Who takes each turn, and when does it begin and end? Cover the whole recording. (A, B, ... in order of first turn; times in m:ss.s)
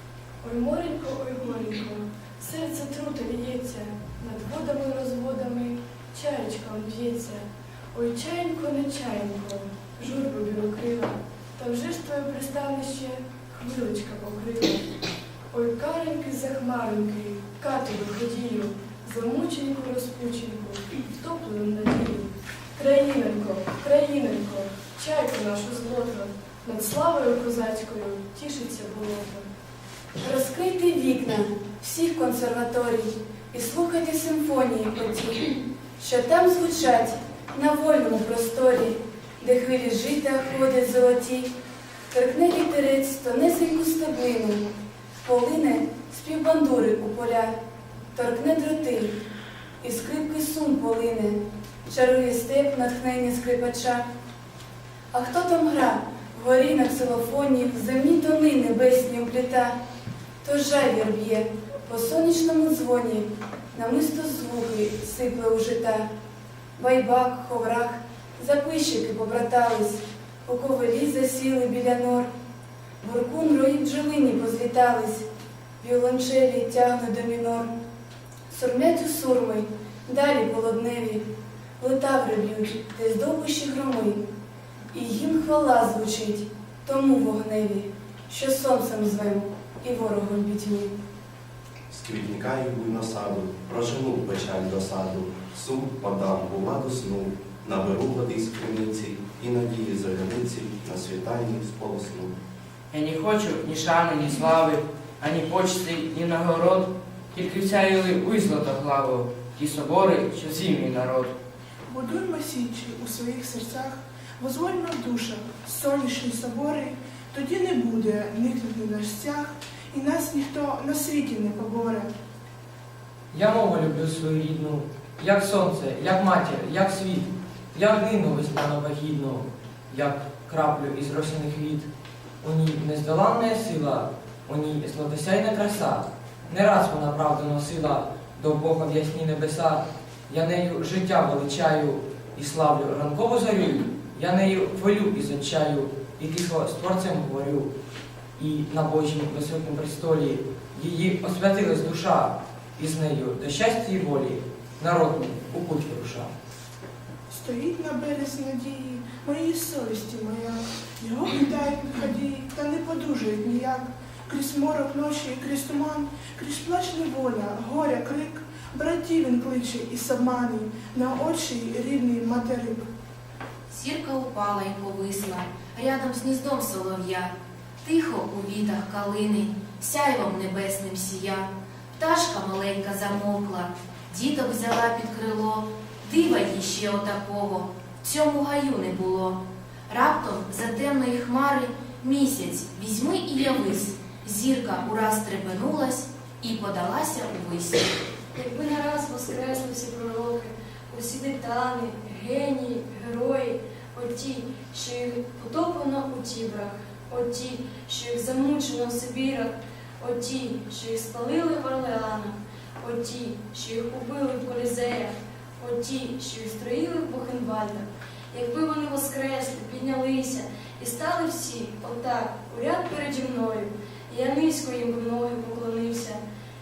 0:00.4-0:14.8 A
0:15.5-0:29.5 A
0:30.2-0:35.4 B
0:36.0-0:41.5 B
0:42.1-0:44.7 B
0:45.2-0:47.6 B
0:48.2-0:49.2 B
0:49.8-0:54.0 B
0:55.1-0:59.8 B
1:00.4-1:06.1 B
1:06.8-1:12.3 B
1:13.0-1:15.2 B
1:15.8-1:17.7 B
1:18.5-1:21.3 B
1:21.8-1:24.2 B
1:24.9-1:30.9 B
1:31.9-1:42.3 C
1:42.9-1:51.3 D
1:51.9-2:02.1 E
2:03.3-2:11.9 F
2:12.4-2:27.7 F
2:28.4-2:36.3 F
2:37.3-2:52.9 E
2:53.7-3:17.9 G
3:18.3-3:46.2 H